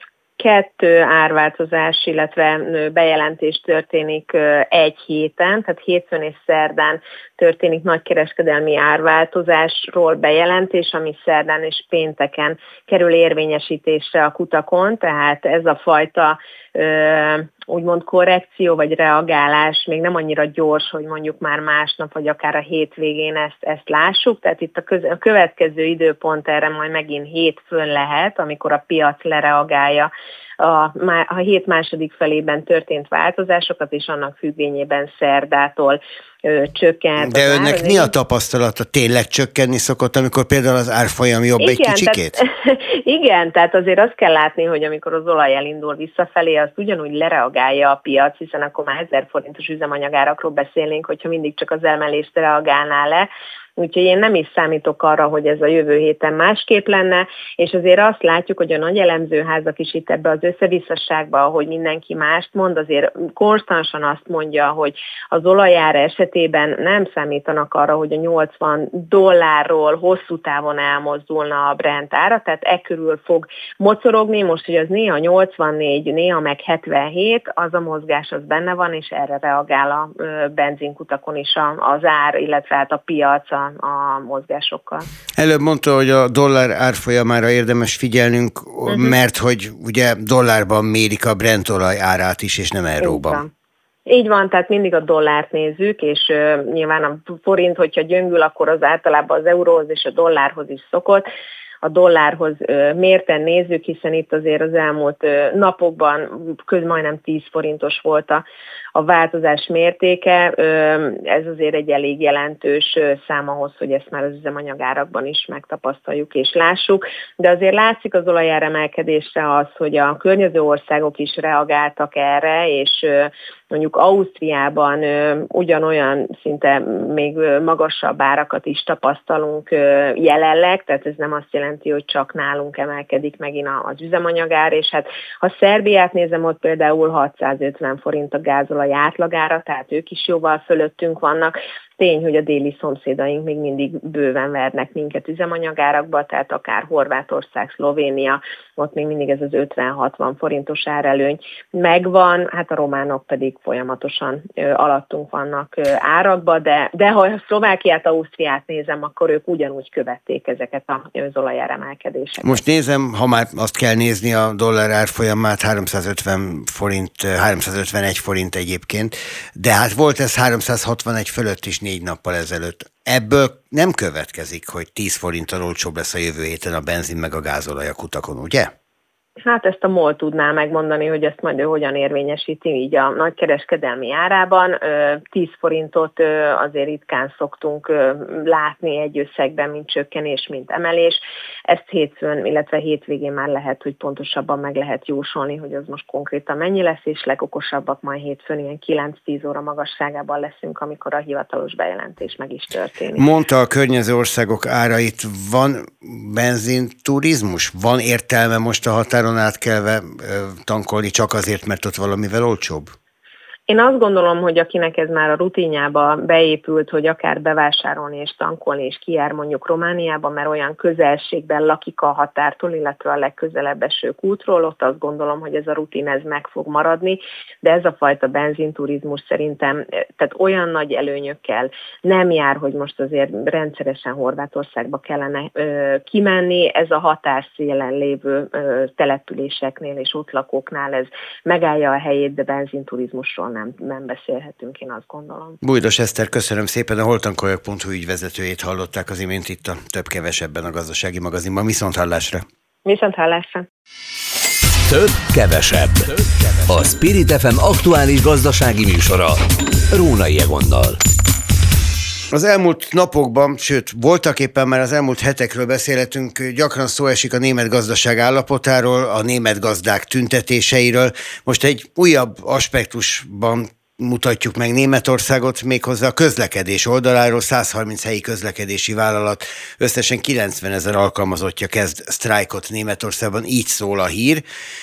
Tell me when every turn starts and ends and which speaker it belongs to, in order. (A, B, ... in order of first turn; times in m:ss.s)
0:00.4-0:38.1 A
0:37.2-0:42.4 B
0:41.6-1:25.1 A
1:25.4-1:33.4 B
1:28.9-1:29.2 A
1:33.0-1:33.5 A
1:34.1-1:41.3 A
1:41.8-1:48.4 A
1:49.0-2:42.6 A
2:42.4-2:58.7 B
2:59.4-3:23.2 A
3:23.2-3:32.9 B
3:33.7-4:05.6 A
4:05.6-4:12.4 B
4:12.8-4:13.7 A
4:14.9-4:19.4 C
4:19.9-4:21.0 C
4:22.3-4:44.4 B